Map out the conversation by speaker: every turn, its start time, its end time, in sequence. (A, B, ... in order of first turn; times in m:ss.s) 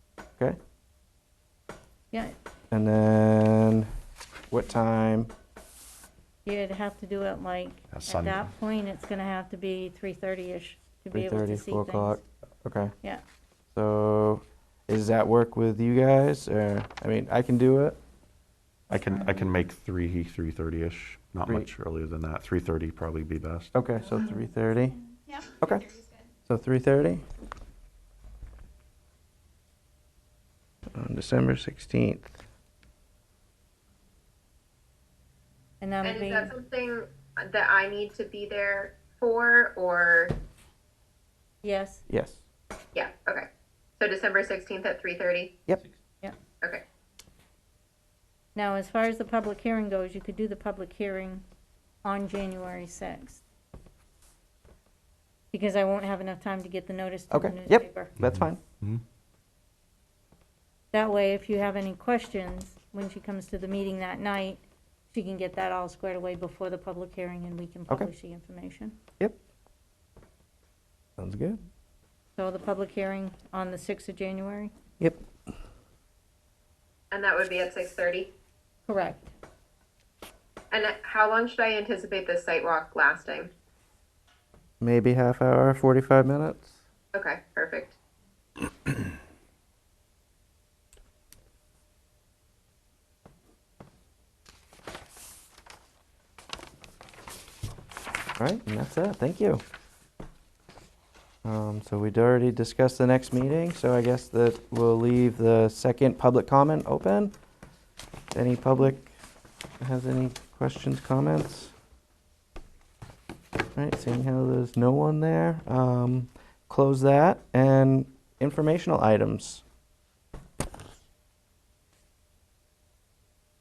0:02.7-0:03.9 A
0:04.5-0:05.3 A
0:06.4-0:12.2 B
0:07.9-0:08.4 C
0:11.1-0:12.9 A
0:13.7-0:18.0 A
0:18.9-0:23.8 C
0:23.7-0:25.0 A
0:24.0-0:26.3 D
0:25.6-0:25.9 A
0:26.5-0:27.2 A
0:30.9-0:32.3 A
0:35.8-0:36.5 B
0:36.0-0:40.4 E
0:41.6-0:42.0 B
0:42.1-0:42.4 A
0:42.9-0:45.6 E
0:48.5-0:51.4 B
0:52.0-0:53.4 B
0:55.5-0:58.1 B
0:57.3-0:58.6 A
0:58.2-0:59.0 C
1:00.9-1:09.0 B
1:11.2-1:11.6 A
1:12.4-1:14.7 B
1:17.1-1:18.3 E
1:18.9-1:19.3 B
1:20.7-1:23.5 E
1:24.8-1:26.7 A
1:27.1-1:28.0 E
1:38.4-1:39.6 A
1:41.4-1:47.3 A
1:48.3-1:49.1 A
1:49.8-1:51.7 A
1:53.8-1:59.6 A